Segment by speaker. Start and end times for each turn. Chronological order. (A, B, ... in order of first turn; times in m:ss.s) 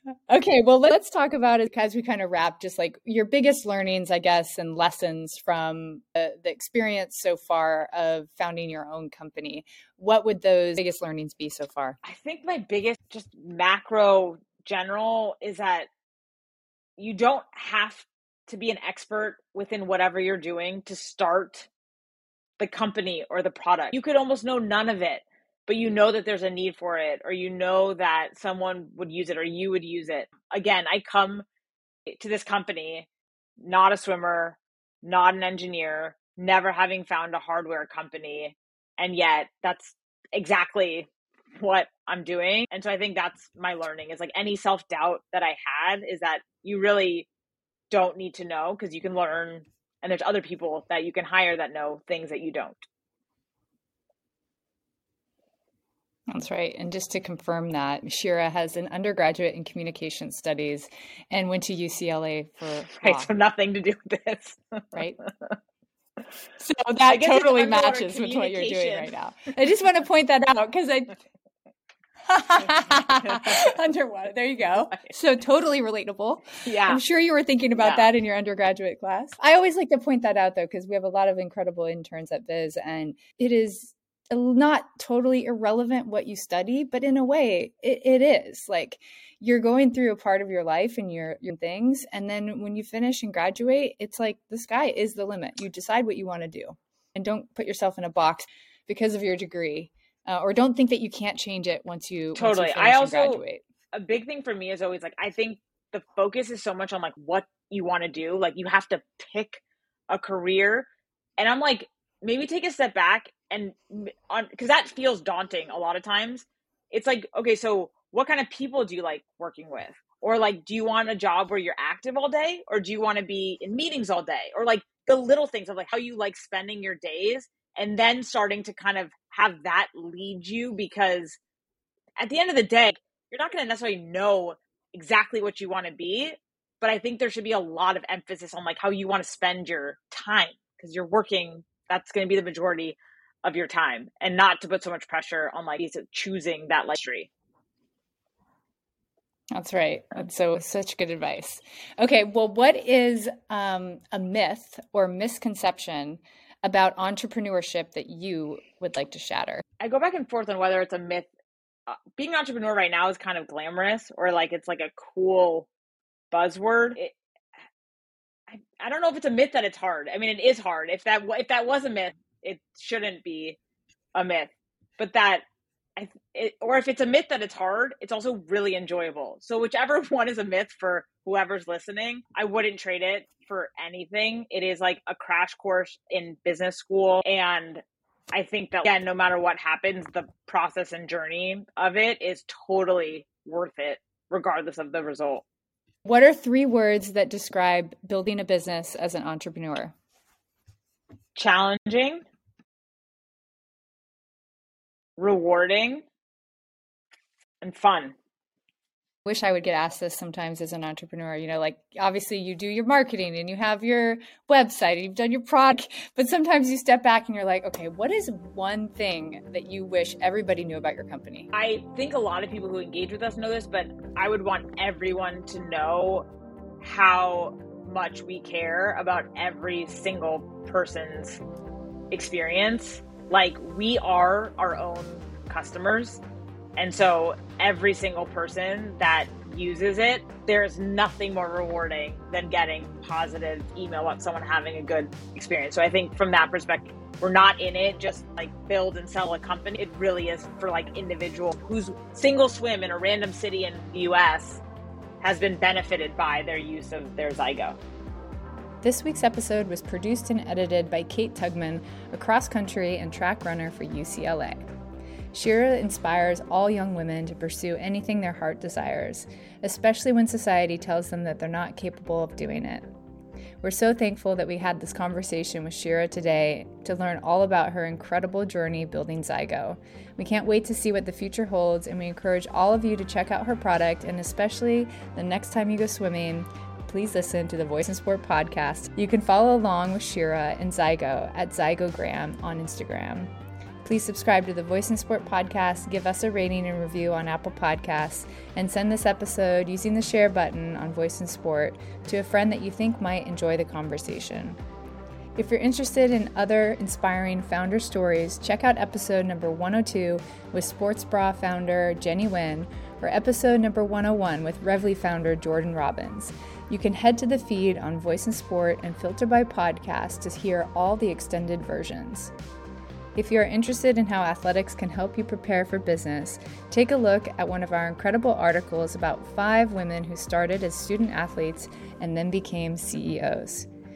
0:00.3-0:12.0 A
0:12.0-0:15.9 B
0:17.0-0:21.7 B
0:22.6-0:31.4 B
0:32.1-0:33.1 B
0:33.6-0:47.3 B
0:47.9-0:52.8 B
0:56.3-1:03.3 A
1:03.0-1:05.6 B
1:06.6-1:11.2 A
1:07.1-1:09.1 B
1:12.3-1:43.6 A
1:13.2-1:13.8 B
1:16.6-1:17.0 B
1:17.8-1:18.1 B
1:42.4-2:11.4 B
2:12.2-2:27.3 B
2:29.6-2:39.6 A
2:39.8-2:41.3 B
2:41.9-2:45.7 B
2:46.3-2:47.2 B
2:48.5-2:53.6 B
2:54.2-2:55.4 B
2:56.0-3:15.4 B
3:16.0-3:19.9 A
3:21.4-3:22.2 B
3:25.2-3:26.0 B
3:27.6-3:28.2 B
3:29.2-3:41.5 A
3:41.5-3:46.3 B
3:46.8-3:51.4 B
3:52.1-3:56.2 B
3:56.8-4:14.6 B
4:15.2-4:17.8 B
4:18.8-4:24.7 A
4:25.3-4:32.9 A
4:33.6-4:53.3 A
4:53.8-5:04.6 A
5:05.4-5:22.3 A
5:23.2-5:33.7 A